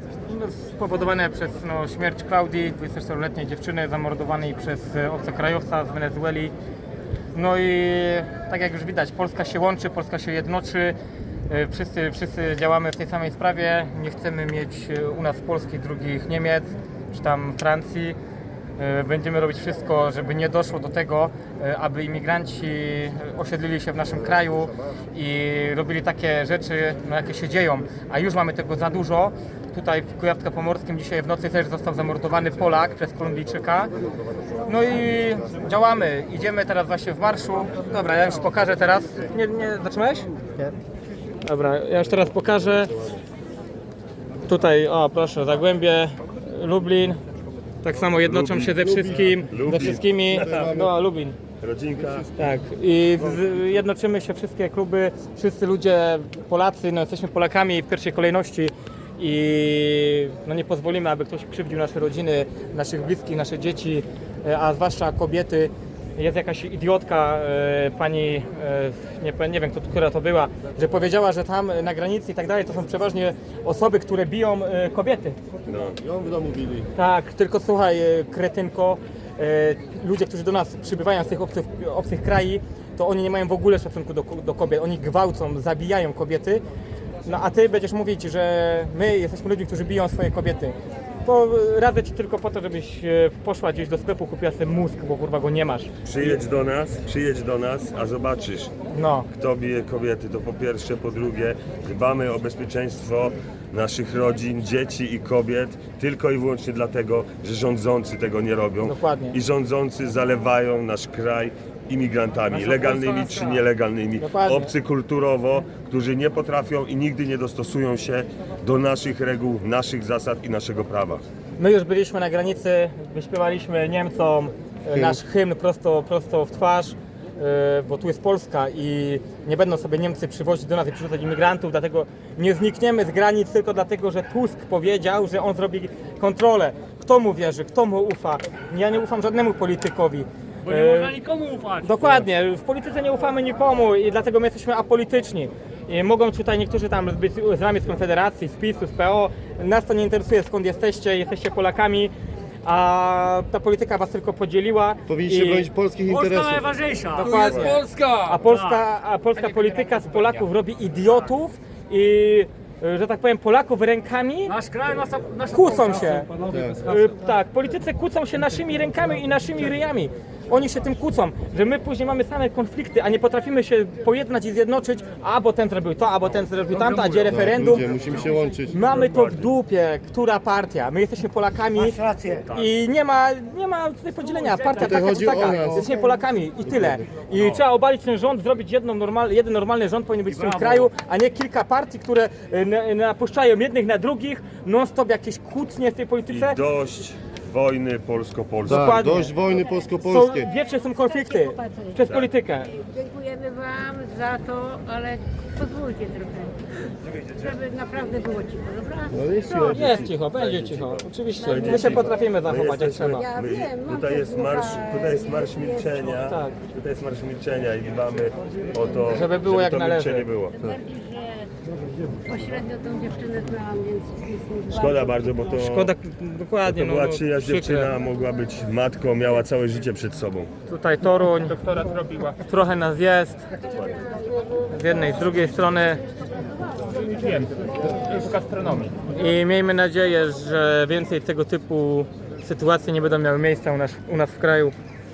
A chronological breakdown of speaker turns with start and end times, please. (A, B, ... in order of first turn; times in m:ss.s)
0:00.2-0:06.5 A
0:07.3-0:11.0 A
0:11.5-0:18.2 A
0:18.8-0:33.9 A
0:34.6-0:40.7 A
0:41.4-0:43.1 A
0:44.4-0:47.2 A
0:47.8-0:51.4 A
0:48.2-0:48.9 B
0:48.9-0:49.4 C
0:49.5-0:50.6 B
0:50.4-0:50.9 C
0:51.6-0:52.3 B
0:52.4-1:15.4 A
1:15.6-1:16.0 B
1:16.0-1:16.9 C
1:16.9-1:26.6 A
1:27.2-1:35.9 A
1:36.0-1:38.7 B
1:38.9-1:39.3 A
1:39.3-2:01.2 B
1:48.8-1:49.4 A
1:52.5-1:53.6 A
1:54.2-1:54.7 A
2:01.6-2:21.2 A
2:20.6-2:22.1 D
2:21.8-2:32.1 A
2:32.6-2:35.7 A
2:35.1-2:36.7 C
2:36.1-2:38.8 D
2:37.1-2:44.6 A
2:37.3-2:37.7 B
2:39.4-2:40.2 D
2:44.5-2:47.0 D
2:45.5-2:46.3 A
2:46.5-2:46.8 C
2:46.8-2:57.9 A
2:56.7-2:57.3 D
2:57.3-2:58.8 C
2:57.9-2:58.4 D
2:58.7-3:02.0 A
3:01.8-3:02.6 D
3:02.5-3:16.6 A
3:04.3-3:05.2 D
3:04.8-3:05.9 C
3:10.3-3:10.9 D
3:16.3-3:18.9 B
3:18.6-3:19.4 A
3:18.7-3:20.5 C
3:20.0-3:22.8 A
3:22.0-3:22.3 B
3:22.8-3:26.6 E
3:27.3-3:29.2 E
3:29.1-3:29.9 C
3:29.4-3:40.8 B
3:29.6-3:33.3 A
3:36.2-3:36.6 A
3:39.1-3:40.3 A
3:40.7-3:41.2 E
3:42.2-3:44.7 E
3:44.7-3:45.9 B
3:45.6-3:47.9 A
3:46.6-3:50.5 B
3:50.7-3:53.5 A
3:51.7-3:52.1 D
3:54.7-3:56.0 A
3:56.9-4:04.7 A